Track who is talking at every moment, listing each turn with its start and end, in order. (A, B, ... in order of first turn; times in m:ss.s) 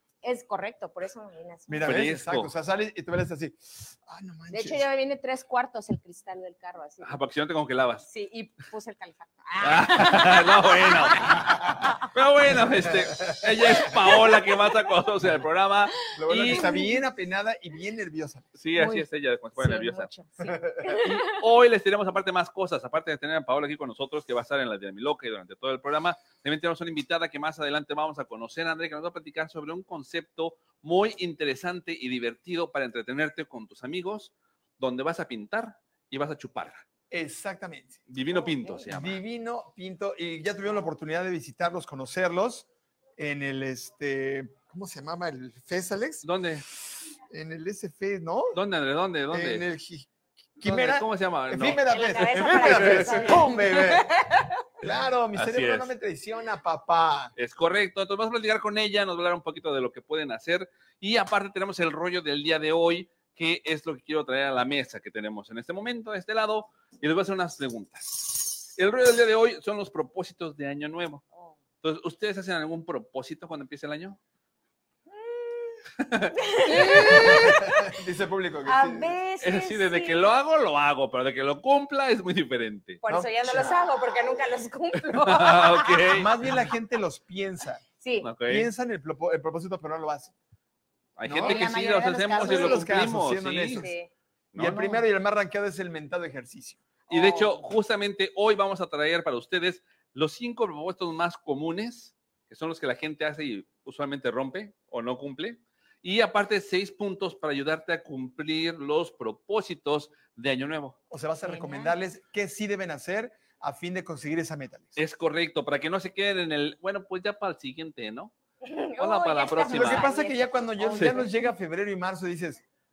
0:00.2-0:02.0 A
0:01.7-0:04.8 B
0:01.8-0:02.5 C
0:04.5-0:07.2 A
0:07.0-0:08.0 C
0:08.0-0:12.1 A
0:09.6-0:16.8 C
0:12.8-0:14.1 B
0:16.1-0:18.5 B
0:16.4-0:17.0 A
0:18.5-0:20.1 C
0:18.7-0:19.0 A
0:19.6-0:21.2 A
0:20.4-0:21.0 B
0:20.8-0:36.8 C
0:37.1-0:38.0 B
0:38.1-0:39.2 C
0:38.8-0:48.6 B
0:46.2-0:46.6 C
0:48.5-0:49.6 C
0:49.3-0:57.3 B
0:50.6-0:51.8 C
0:51.9-0:54.6 A
0:52.3-0:53.4 C
0:55.3-0:55.9 C
0:57.4-1:11.2 C
1:11.8-1:14.2 C
1:15.1-1:15.8 A
1:16.0-1:17.4 C
1:16.3-1:17.9 A
1:17.1-1:19.2 B
1:18.6-1:20.3 A
1:19.4-1:23.0 C
1:23.0-1:26.2 A
1:23.0-1:23.8 B
1:25.1-1:26.3 C
1:26.1-1:27.8 B
1:28.0-1:28.3 A
1:28.2-1:28.7 C
1:28.4-1:30.3 B
1:31.2-1:33.9 C
1:31.2-1:31.7 B
1:31.4-1:33.0 A
1:32.4-1:33.9 B
1:33.7-1:34.1 A
1:34.5-1:35.0 C
1:34.5-1:36.8 B
1:37.1-1:51.0 C
1:37.1-1:37.6 A
1:51.1-1:55.0 B
1:51.4-1:52.0 A
1:55.0-1:58.3 C
1:58.6-2:01.4 A
1:59.0-2:00.1 C
1:59.6-2:02.6 B